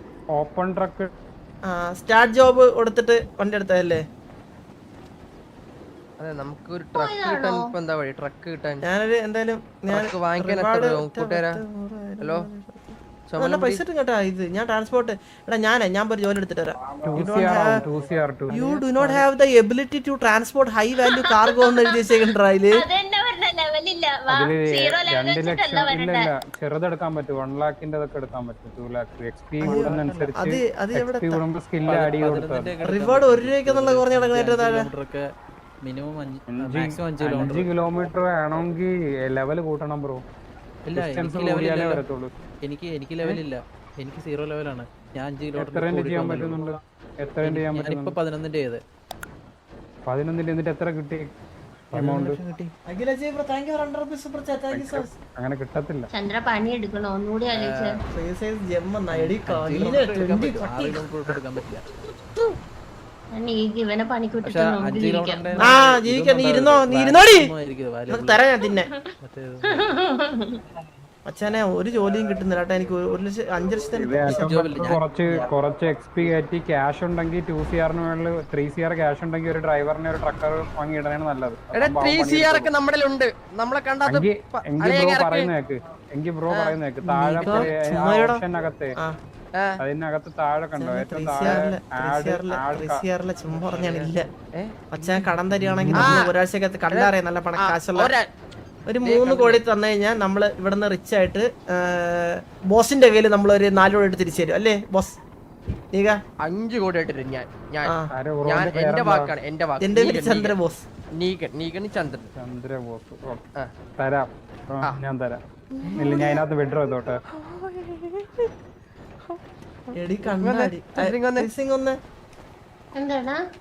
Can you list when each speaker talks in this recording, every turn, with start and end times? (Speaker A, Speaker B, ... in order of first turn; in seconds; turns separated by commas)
Speaker A: 0.3-1.1, Speaker B: 1.6-4.0, Speaker C: 6.2-8.8, Speaker D: 6.9-7.7, Speaker B: 8.8-17.8, Speaker C: 9.9-11.6, Speaker C: 12.2-12.5, Speaker C: 13.3-13.8, Speaker A: 17.0-19.1, Speaker B: 18.5-22.8, Speaker D: 21.0-22.2, Speaker D: 22.8-26.3, Speaker A: 24.3-32.7, Speaker B: 29.6-31.4, Speaker E: 29.6-30.4, Speaker E: 31.8-35.2, Speaker B: 32.8-34.9, Speaker E: 35.9-37.7, Speaker A: 36.5-40.2, Speaker E: 40.9-42.0, Speaker A: 40.9-42.3, Speaker E: 42.6-46.7, Speaker A: 45.5-48.2, Speaker E: 47.4-48.8, Speaker A: 50.1-51.3, Speaker A: 51.9-52.4, Speaker B: 52.9-55.1, Speaker A: 54.7-56.1, Speaker D: 56.1-58.0, Speaker B: 58.1-61.0, Speaker E: 59.1-61.9, Speaker D: 63.3-65.5, Speaker E: 64.4-68.4, Speaker B: 65.6-67.5, Speaker B: 68.1-68.9, Speaker E: 69.2-69.9, Speaker D: 69.6-70.6, Speaker B: 71.2-74.8, Speaker A: 74.0-82.7, Speaker E: 74.2-75.5, Speaker C: 81.8-85.5, Speaker A: 84.1-89.0, Speaker B: 87.1-88.4, Speaker C: 87.4-87.7, Speaker A: 89.8-93.0, Speaker B: 90.8-94.3, Speaker C: 93.6-94.8, Speaker B: 94.9-98.1, Speaker A: 95.6-96.1, Speaker C: 95.9-96.3, Speaker C: 96.9-98.3, Speaker B: 98.9-105.2, Speaker C: 99.0-99.6, Speaker B: 105.9-106.2, Speaker C: 106.4-107.9, Speaker B: 107.8-108.1, Speaker A: 108.1-109.3, Speaker C: 108.4-110.5, Speaker B: 109.8-110.8, Speaker C: 111.2-112.3, Speaker A: 112.4-113.4, Speaker A: 114.0-115.4, Speaker C: 115.7-116.4, Speaker A: 115.9-117.2, Speaker C: 117.3-118.5, Speaker C: 119.3-121.5, Speaker B: 120.0-122.0, Speaker D: 123.0-123.4